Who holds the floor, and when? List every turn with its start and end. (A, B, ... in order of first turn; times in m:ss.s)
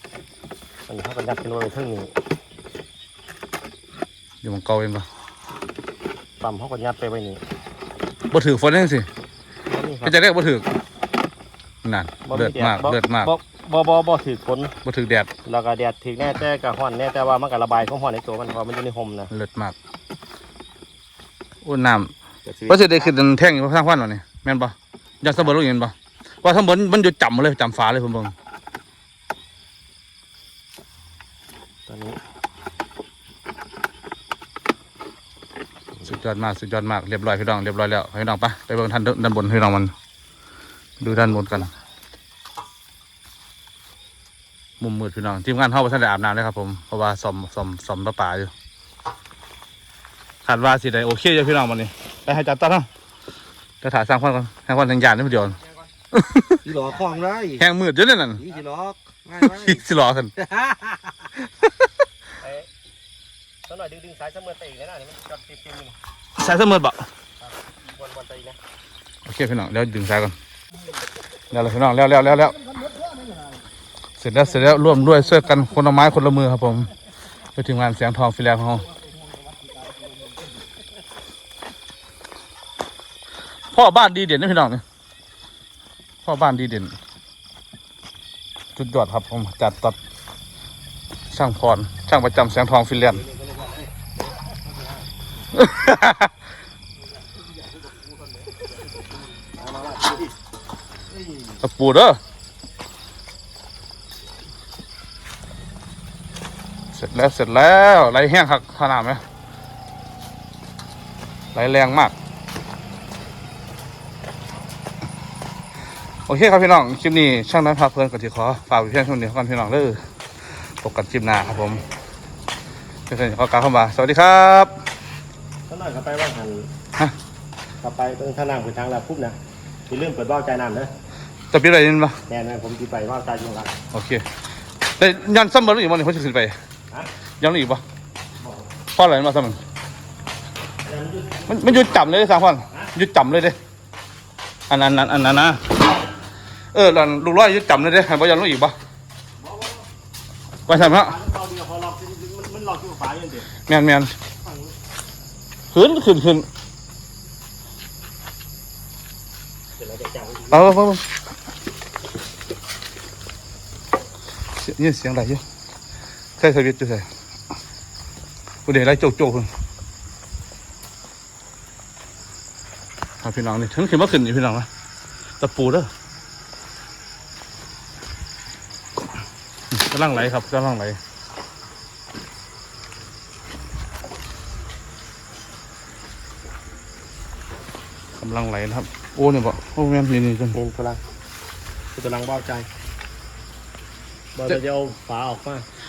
0:00.9-0:02.1 A
0:04.4-0:05.0 B
0:06.4-0:07.4 A
0:08.3-0:09.1 B
0:09.7-0:10.2 A
0:10.0-0:10.6 B
0:11.8-0:13.3 B
0:12.2-0:14.7 A
0:14.8-0:15.3 B
0:15.4-0:19.3 A
0:19.3-0:19.7 B
0:21.6-0:22.1 B
0:22.4-0:23.1 A
0:22.7-0:28.3 B
0:31.9-0:32.2 A
0:36.0-0:39.9 B
0:41.0-0:41.7 B
0:44.8-0:48.5 B
0:50.4-0:52.9 B
0:53.8-0:55.6 B
0:55.5-0:55.9 A
0:56.1-0:56.6 B
0:56.6-0:57.6 C
0:57.6-0:58.4 B
0:58.4-0:59.8 C
0:59.4-1:00.3 B
1:00.4-1:01.1 C
1:02.4-1:02.7 A
1:03.6-1:06.0 A
1:06.4-1:07.0 B
1:07.4-1:08.6 A
1:09.2-1:10.3 B
1:11.5-1:12.6 B
1:14.2-1:16.9 B
1:17.5-1:18.9 B
1:23.7-1:24.8 B
1:26.2-1:26.9 B
1:28.8-1:30.0 B
1:31.3-1:33.2 B
1:33.2-1:34.5 A
1:35.5-1:36.3 B
1:39.6-1:40.3 A
1:41.3-1:41.5 A
1:41.6-1:42.2 B
1:46.9-1:49.2 B
1:51.5-1:52.1 B
1:56.3-2:00.0 B
2:00.8-2:01.8 B
2:03.1-2:04.7 B
2:05.7-2:06.7 A
2:07.8-2:09.4 A
2:09.9-2:10.9 A
2:11.5-2:12.2 B
2:12.3-2:13.7 A
2:13.9-2:14.2 B
2:15.0-2:16.5 B
2:17.4-2:17.8 B
2:18.4-2:18.7 A
2:18.9-2:19.6 B
2:20.8-2:21.9 A
2:21.5-2:23.6 B
2:24.7-2:25.8 B
2:26.7-2:28.7 B
2:29.4-2:29.8 A
2:30.7-2:31.1 B
2:30.7-2:33.5 A
2:33.6-2:34.1 B
2:35.7-2:36.5 B
2:39.8-2:40.8 A
2:40.5-2:41.0 B
2:44.6-2:45.4 B
2:46.4-2:47.0 B
2:48.6-2:49.5 B
2:53.2-2:54.7 B
2:55.4-2:55.9 B
2:59.7-3:01.0 B
3:08.2-3:10.6 B
3:10.5-3:11.0 A
3:11.9-3:12.7 A
3:14.4-3:15.6 A